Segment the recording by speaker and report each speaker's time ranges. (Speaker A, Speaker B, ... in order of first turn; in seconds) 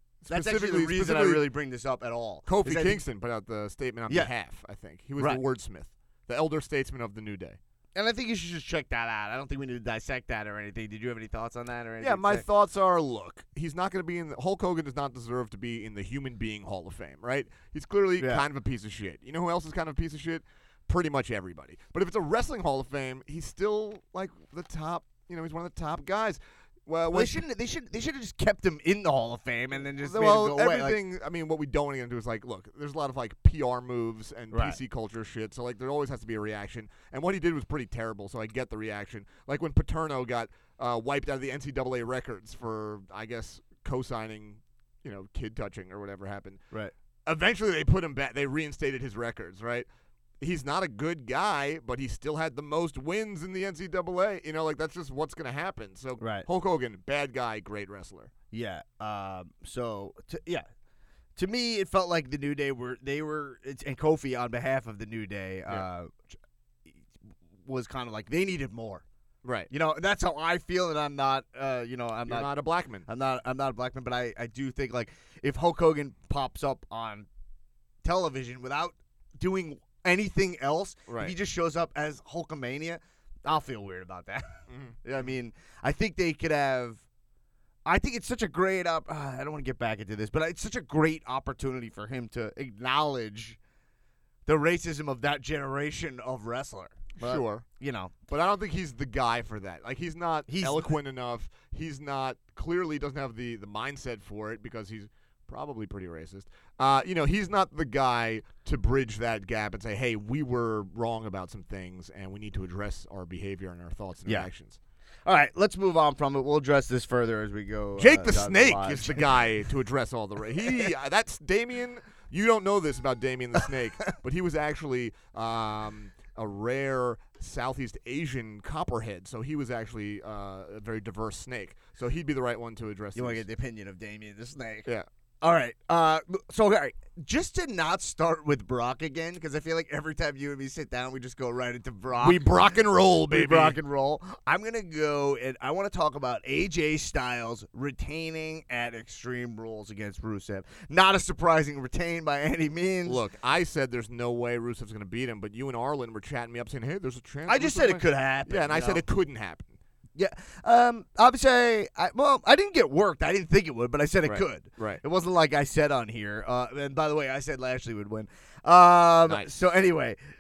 Speaker A: 0.2-1.5, 2.5-7.6, 12.0-27.4, 30.0-46.6, 47.3-49.9, 50.4-58.3, 69.4-69.7, 72.3-73.1, 81.1-81.3, 84.7-85.3, 97.2-97.7, 98.3-114.8, 118.0-133.4, 142.2-143.8, 153.1-159.7, 164.2-165.0
Speaker B: 0.3-3.0, 4.1-4.3, 8.0-12.4, 18.2-18.4, 27.1-31.0, 34.5-34.8, 56.2-56.5, 58.5-60.7, 61.4-66.1, 67.7-69.0, 69.7-72.5, 73.0-77.3, 78.0-87.0, 87.9-93.6, 94.5-98.1, 100.5-101.0, 115.3-119.5, 120.6-120.9, 133.2-134.9, 135.4-142.5, 143.3-153.2, 157.5-159.0, 160.2-170.2